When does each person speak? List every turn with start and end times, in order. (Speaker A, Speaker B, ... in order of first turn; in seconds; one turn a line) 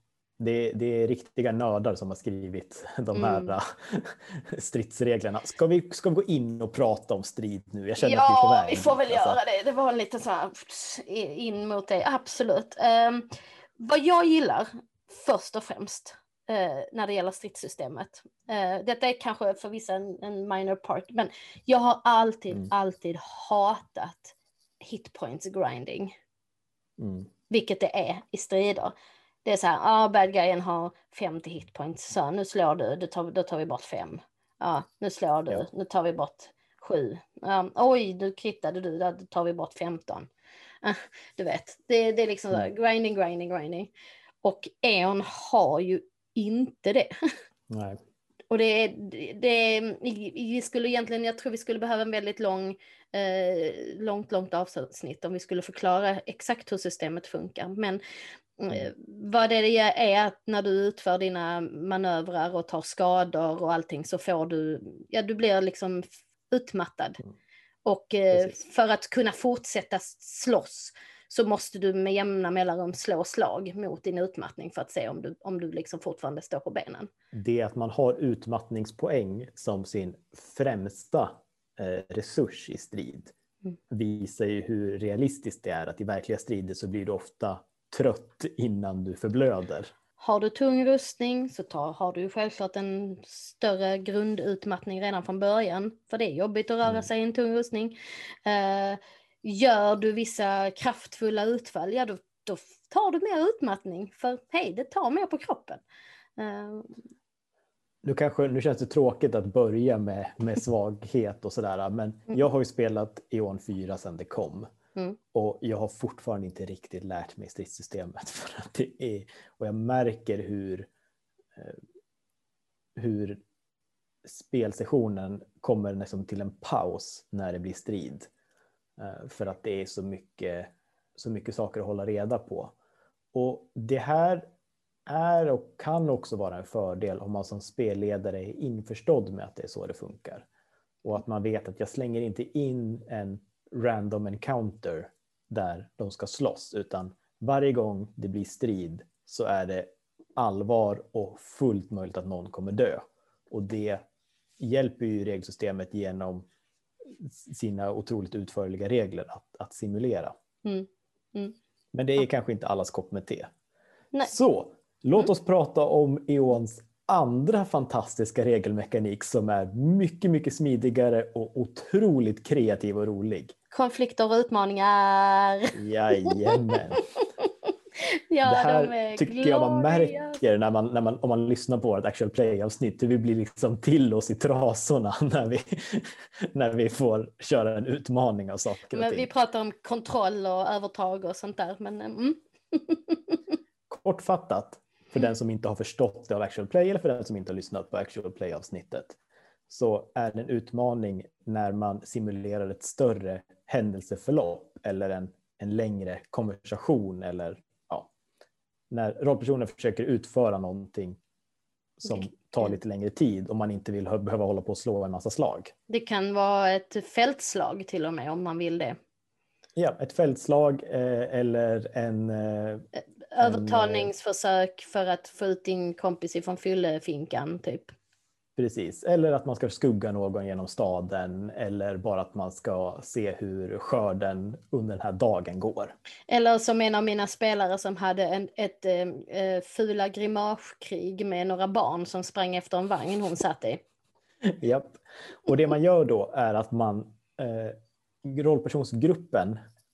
Speaker A: 0.4-9.4
Speaker B: 3.1-3.5
Speaker B: 8.0-13.3
Speaker B: 13.8-26.1
Speaker A: 27.0-27.3
Speaker B: 27.5-28.9
Speaker B: 29.4-40.3
Speaker B: 40.8-43.9
Speaker B: 44.4-47.1
Speaker A: 47.7-48.0
Speaker B: 48.5-58.0
Speaker B: 58.6-67.2
Speaker B: 67.8-77.1
Speaker A: 68.3-68.6
Speaker A: 77.3-83.3
Speaker A: 83.9-89.9
Speaker B: 90.2-105.8
Speaker B: 106.4-107.0
Speaker A: 108.0-114.7
Speaker A: 115.3-120.9
Speaker A: 123.0-123.4
Speaker A: 124.2-128.3
Speaker A: 129.0-132.8
Speaker A: 133.3-134.5
Speaker A: 135.1-140.5
Speaker A: 141.1-154.0
Speaker A: 154.6-156.5
Speaker A: 157.2-160.3
Speaker B: 160.6-161.6
Speaker A: 161.9-163.5
Speaker A: 164.2-173.6
Speaker B: 173.7-176.8
Speaker A: 175.8-177.0
Speaker B: 177.4-180.4
Speaker A: 178.4-189.3
Speaker B: 188.9-193.4
Speaker A: 193.9-199.2
Speaker A: 199.7-208.1
Speaker A: 208.9-211.2
Speaker A: 212.0-215.7
Speaker B: 215.9-219.0
Speaker A: 219.8-222.8
Speaker B: 222.9-227.9
Speaker A: 223.4-224.1
Speaker A: 228.6-235.9
Speaker B: 236.3-243.8
Speaker A: 244.6-249.6